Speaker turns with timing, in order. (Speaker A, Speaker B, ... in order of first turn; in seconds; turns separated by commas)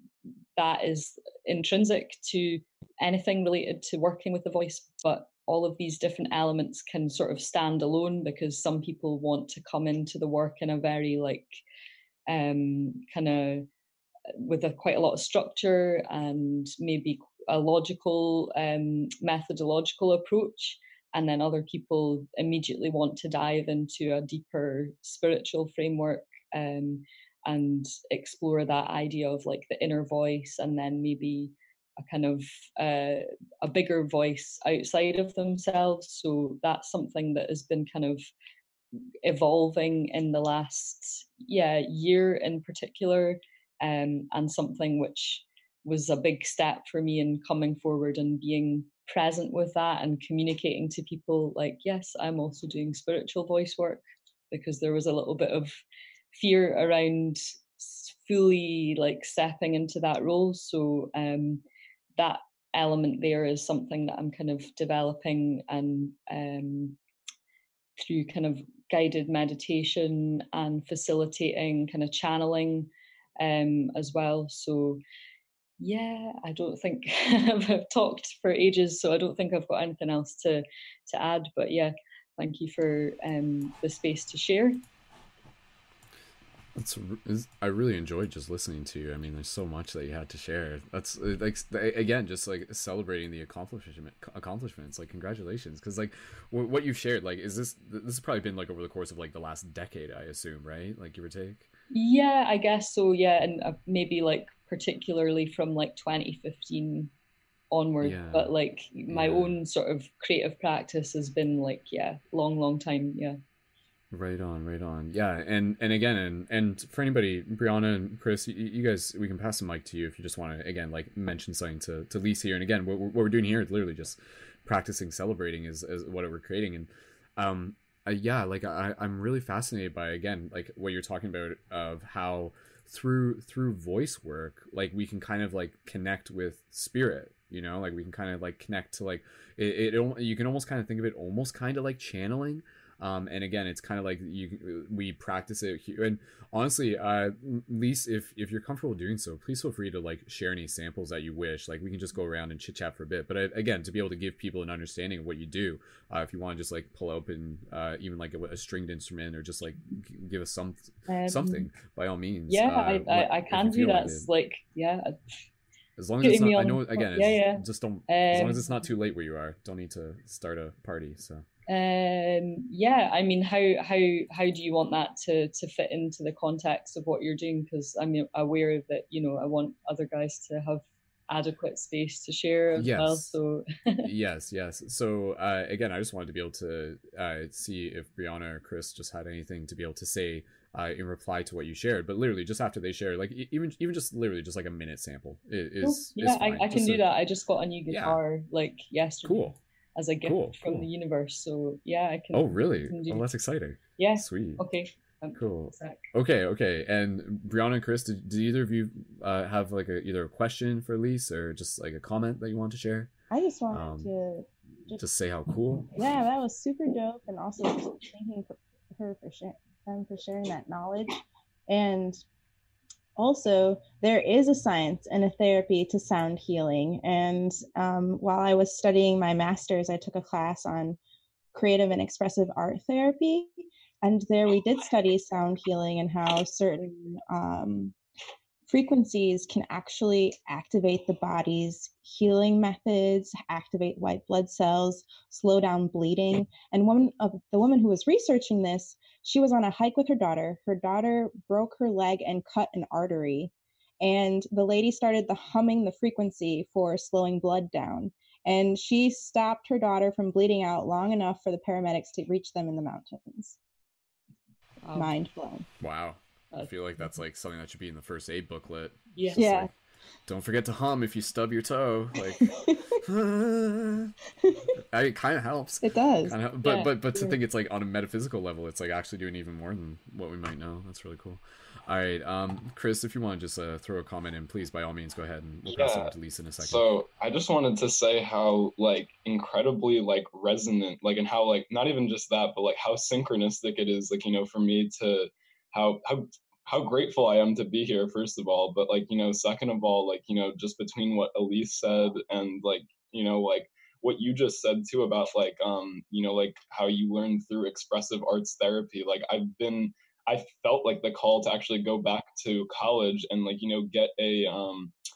Speaker A: 0.6-11.5, Speaker A: 12.3-13.7, Speaker A: 14.4-38.3, Speaker A: 39.0-55.8, Speaker A: 56.3-61.6, Speaker A: 62.2-67.0, Speaker A: 68.0-75.0, Speaker A: 75.8-84.8, Speaker B: 86.8-101.7, Speaker A: 101.9-107.1, Speaker A: 107.7-113.4, Speaker B: 108.0-108.5, Speaker B: 109.1-109.6, Speaker B: 114.1-164.3, Speaker A: 161.1-161.7, Speaker A: 162.5-165.2, Speaker B: 166.0-171.5, Speaker A: 166.2-168.6, Speaker A: 171.7-184.1, Speaker B: 182.8-183.3, Speaker B: 184.0-197.0, Speaker A: 195.8-203.2, Speaker B: 197.9-198.2, Speaker B: 199.2-199.6, Speaker B: 200.2-200.9, Speaker B: 202.3-204.6, Speaker A: 204.0-206.1, Speaker B: 205.4-213.1, Speaker C: 213.3-215.0, Speaker B: 213.7-214.1, Speaker B: 215.0-216.0, Speaker C: 215.9-222.2, Speaker C: 223.2-231.0, Speaker C: 231.5-237.9, Speaker C: 238.7-263.6, Speaker A: 264.8-265.1, Speaker C: 264.9-265.7, Speaker B: 265.8-269.7, Speaker A: 269.1-269.5, Speaker C: 269.4-269.7, Speaker B: 270.3-274.1, Speaker C: 272.4-273.0, Speaker C: 274.5-274.8, Speaker B: 274.9-286.9, Speaker C: 275.8-276.4, Speaker A: 276.6-276.9, Speaker D: 285.7-314.9